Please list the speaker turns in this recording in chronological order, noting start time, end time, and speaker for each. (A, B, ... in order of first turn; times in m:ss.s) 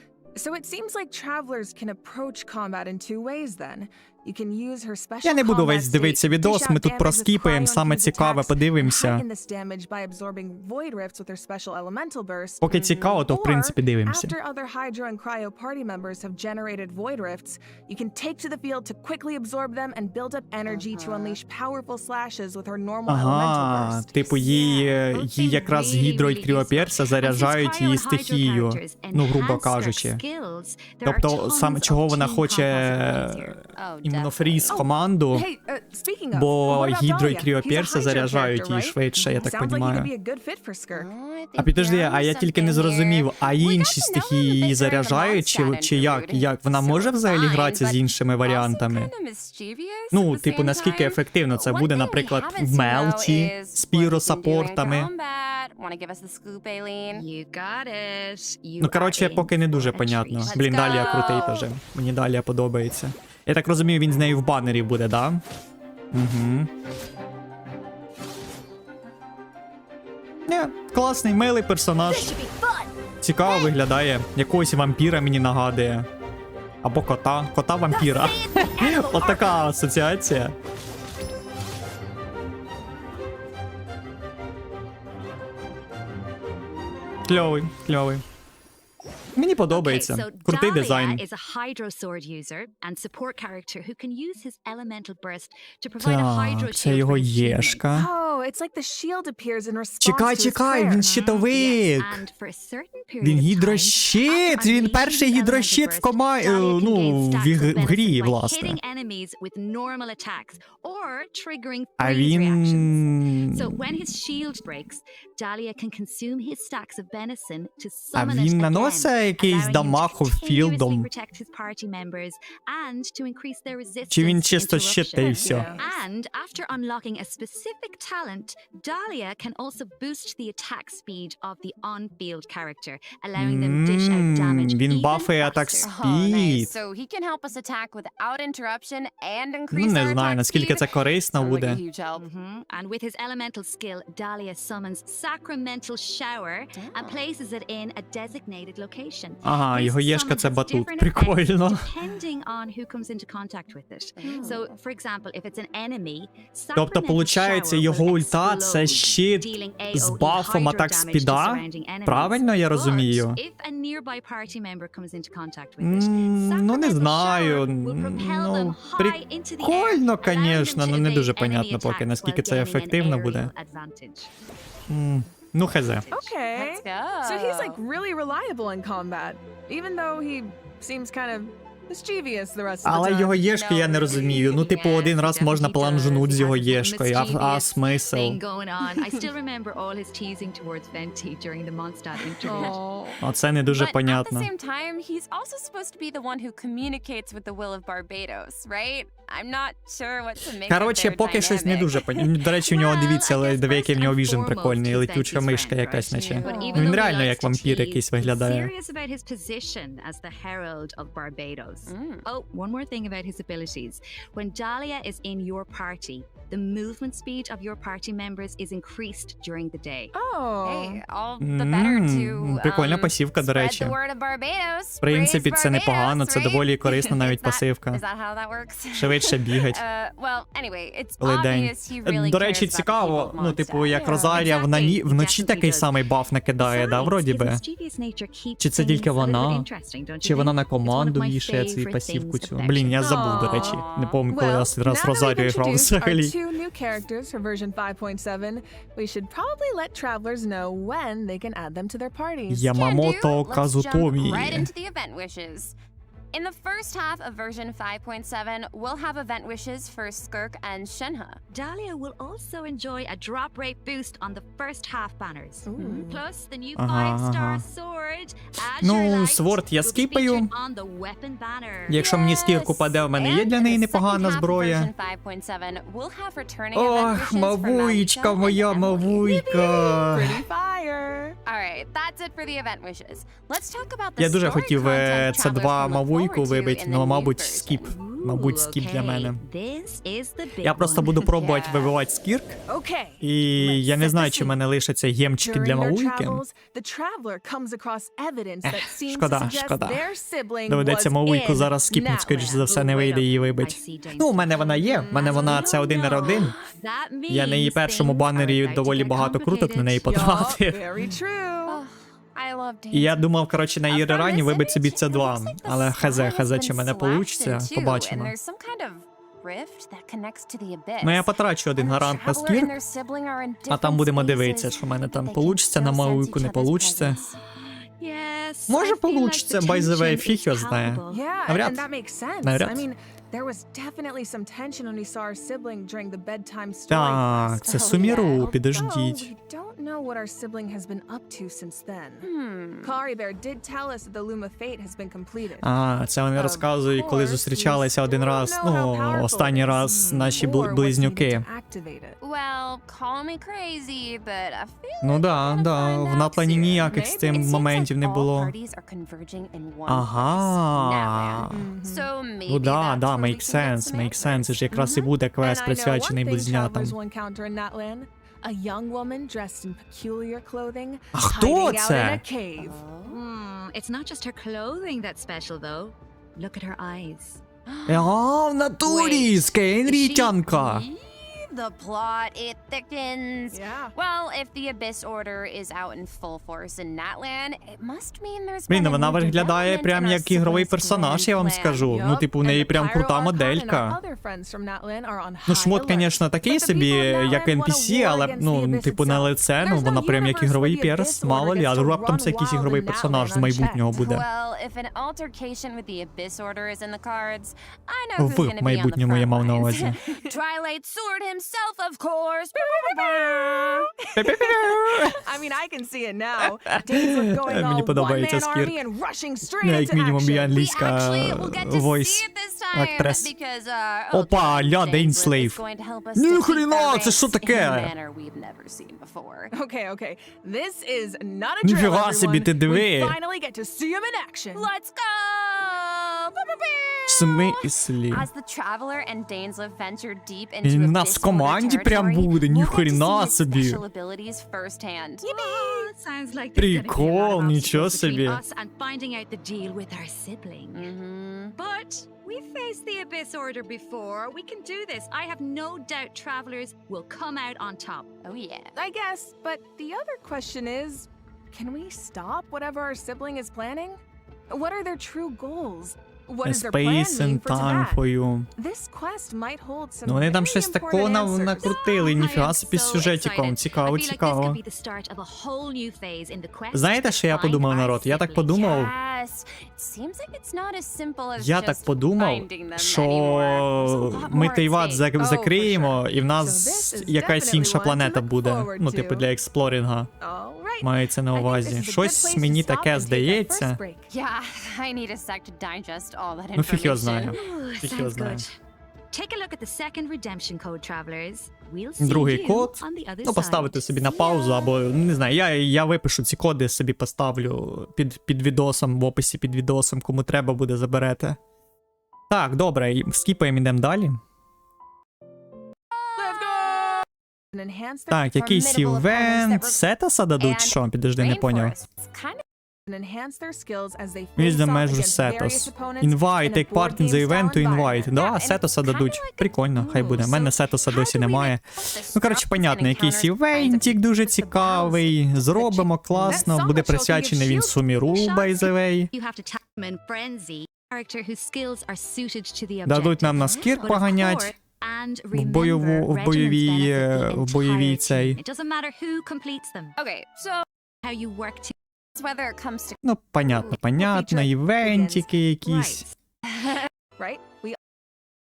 0:00.4-0:24.9 A
0:05.2-0:09.2 B
0:12.6-0:14.3 B
0:12.7-0:13.0 C
0:20.6-0:21.4 C
0:23.0-0:30.2 B
0:24.6-0:33.6 D
0:31.0-0:35.5 B
0:33.7-0:34.8 C
0:34.7-0:41.1 A
0:36.3-0:40.1 B
0:40.9-0:57.2 C
0:41.6-0:49.1 B
0:50.1-0:55.1 B
0:57.1-1:00.6 D
0:58.8-1:05.4 B
1:00.5-1:01.7 C
1:06.1-1:06.7 B
1:10.5-1:12.4 B
1:12.1-1:12.6 D
1:13.2-1:16.1 B
1:16.8-1:20.5 B
1:17.9-1:19.6 D
1:27.2-1:28.2 B
1:29.4-1:31.2 B
1:29.7-1:37.8 D
1:36.0-1:38.1 B
1:37.9-1:41.2 A
1:40.0-1:42.2 B
1:41.2-2:15.9 D
1:43.2-1:48.8 B
1:52.0-1:53.8 B
1:58.1-2:01.1 B
2:04.1-2:05.7 B
2:05.3-2:06.0 A
2:13.3-2:16.7 B
2:15.8-2:22.2 C
2:19.7-2:21.8 B
2:22.1-2:54.3 D
2:26.8-2:27.2 C
2:29.4-2:31.9 B
2:34.2-2:34.7 C
2:36.7-2:43.4 B
2:45.8-2:53.5 B
2:54.9-2:56.0 B
2:55.9-2:56.4 D
2:56.1-3:03.4 A
2:56.5-2:57.8 C
3:02.8-3:08.4 B
3:03.4-3:05.1 C
3:04.6-3:12.8 D
3:12.4-3:13.2 A
3:12.4-3:12.8 C
3:13.2-3:14.5 B
3:13.7-3:22.2 C
3:20.7-3:28.7 B
3:22.6-3:40.1 D
3:26.1-3:27.0 C
3:31.9-3:32.2 C
3:40.1-3:41.0 A
3:40.6-3:54.6 C
3:41.4-3:44.0 B
3:45.0-3:48.0 B
3:48.9-3:49.8 B
3:51.2-3:57.6 B
3:54.0-3:54.3 A
3:54.3-3:55.9 D
3:56.6-4:03.0 D
3:58.6-3:59.7 B
4:00.2-4:06.4 B
4:03.0-4:12.8 A
4:03.2-4:04.2 C
4:12.5-4:14.7 B
4:12.7-4:15.7 C
4:16.3-4:21.4 C
4:21.5-4:32.0 D
4:25.6-4:26.2 A
4:25.8-4:26.0 C
4:26.8-4:27.6 B
4:28.8-4:30.5 B
4:31.9-4:34.9 B
4:31.9-4:39.3 C
4:36.7-4:40.4 B
4:39.2-4:41.4 A
4:41.4-4:47.9 C
4:44.2-4:49.4 B
4:47.8-4:51.2 D
4:50.6-4:52.6 B
4:51.2-4:51.9 C
4:52.7-4:54.5 A
4:53.2-4:56.4 B
4:55.4-5:02.7 A
4:58.6-5:00.1 B
5:00.7-5:06.6 B
5:02.6-5:10.4 D
5:05.0-5:05.6 A
5:06.2-5:06.7 C
5:07.3-5:10.8 B
5:10.1-5:11.8 A
5:11.7-5:13.2 C
5:12.9-5:18.3 B
5:13.9-5:27.4 C
5:21.0-5:22.7 B
5:23.7-5:27.2 B
5:27.2-5:31.2 D
5:28.7-5:31.8 B
5:31.1-5:42.3 A
5:32.4-5:32.9 B
5:36.9-5:39.3 B
5:37.6-5:38.5 C
5:42.2-5:43.0 C
5:42.8-5:45.7 A
5:45.6-5:51.4 B
5:46.3-5:52.2 A
5:49.9-5:50.3 D
5:52.2-6:05.0 C
5:55.0-5:58.5 B
5:56.9-5:57.5 A
5:59.9-6:01.6 B
6:01.5-6:02.1 A
6:02.5-6:07.0 B
6:04.7-6:12.8 A
6:11.1-6:12.2 B
6:12.6-6:13.2 C
6:13.0-6:17.4 D
6:17.7-6:18.1 C
6:17.9-6:20.8 B
6:18.8-6:20.3 D
6:20.5-6:31.9 C
6:23.5-6:23.9 A
6:28.7-6:34.0 B
6:28.9-6:31.3 A
6:31.8-6:43.9 A
6:35.4-6:44.2 B
6:44.0-6:53.9 C
6:48.2-6:50.0 B
6:52.5-7:00.6 A
6:54.2-6:55.2 B
6:56.4-6:58.8 B
6:59.6-7:03.3 B
7:00.5-7:09.5 C
7:04.1-7:05.6 B
7:06.1-7:07.9 B
7:09.5-7:14.7 A
7:11.6-7:13.2 B
7:14.5-7:25.3 C
7:17.1-7:18.3 B
7:20.6-7:23.8 B
7:25.2-7:30.9 D
7:25.3-7:25.8 A
7:26.6-7:28.4 B
7:30.7-7:31.5 C
7:31.6-7:38.1 D
7:38.2-7:38.7 C
7:38.8-7:48.0 A
7:46.4-7:48.5 B
7:48.6-7:51.8 A
7:50.0-7:54.6 B
7:51.6-7:58.6 D
7:56.7-7:58.9 B
7:58.5-8:05.0 C
8:01.4-8:10.1 B
8:03.8-8:09.3 A
8:10.2-8:14.1 A
8:10.8-8:13.8 B
8:14.1-8:17.3 C
8:16.6-8:18.4 B
8:17.3-8:18.6 D
8:19.1-8:24.4 D
8:22.0-8:31.4 B
8:32.3-8:34.2 B
8:35.9-8:37.0 C
8:36.2-8:38.3 A
8:38.1-8:41.7 B
8:38.4-8:39.8 C
8:40.4-8:42.4 C
8:42.9-8:48.1 A
8:44.4-8:59.1 B
8:48.0-8:54.6 C
8:49.8-8:50.3 D
8:54.5-8:58.6 A
8:59.1-9:10.0 D
9:02.8-9:04.5 B
9:03.4-9:03.8 C
9:05.3-9:08.4 B
9:10.0-9:10.6 C
9:11.0-9:11.7 D
9:12.2-9:13.8 C
9:13.0-9:16.1 B
9:14.0-9:15.3 A
9:15.6-9:16.1 D
9:16.5-9:16.9 C
9:17.2-9:17.8 A